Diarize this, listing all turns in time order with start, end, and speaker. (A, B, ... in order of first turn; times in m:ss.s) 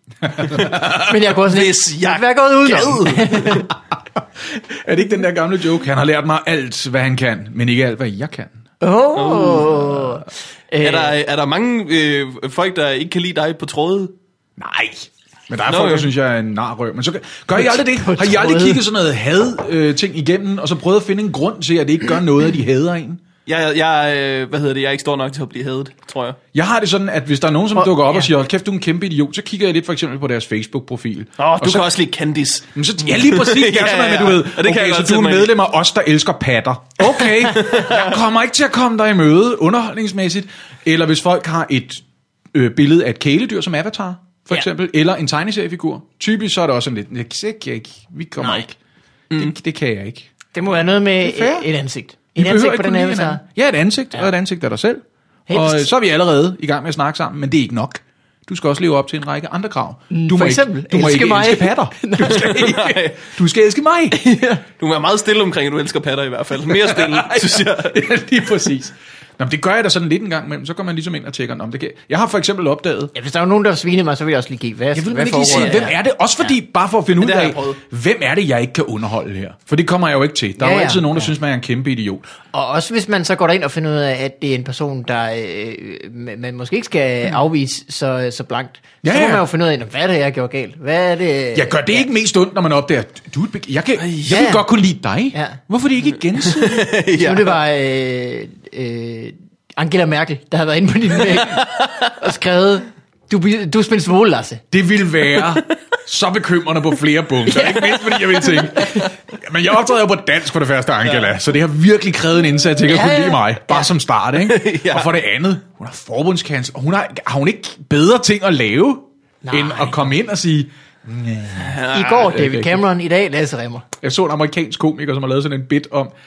0:00.2-0:01.2 A
0:00.5-0:03.7 B
0:00.7-0:03.7 C
0:03.7-0:08.6 A
0:08.8-0:11.2 B
0:09.2-0:09.9 C
0:10.8-0:14.1 C
0:14.6-0:23.2 A
0:15.7-0:16.1 C
0:17.5-0:18.8 B
0:23.5-0:26.4 C
0:26.5-0:31.9 A
0:27.8-0:28.3 B
0:31.4-0:35.5 C
0:32.7-0:48.8 A
0:37.1-0:38.1 C
0:49.3-0:50.3 A
0:50.5-0:53.4 B
0:51.2-0:51.7 A
0:52.4-1:04.2 A
0:55.5-0:55.9 B
1:00.1-1:02.6 B
1:02.3-1:03.2 C
1:04.1-1:04.6 B
1:04.8-1:08.0 C
1:06.7-1:13.1 A
1:13.1-1:16.0 B
1:14.9-1:22.3 A
1:15.5-1:15.9 C
1:17.2-1:17.8 C
1:20.6-1:21.3 B
1:22.5-1:32.1 B
1:29.0-1:29.5 A
1:31.5-1:37.0 A
1:34.0-1:34.4 C
1:34.3-1:34.6 B
1:35.3-1:35.6 B
1:36.4-1:37.6 C
1:37.1-1:44.6 B
1:41.4-1:42.1 C
1:44.7-2:02.8 A
1:47.5-1:49.1 B
1:51.1-1:51.3 C
1:52.8-1:53.9 B
1:54.4-1:55.2 C
1:59.4-2:00.1 B
2:01.6-2:02.3 C
2:01.9-2:03.9 B
2:04.0-2:06.1 A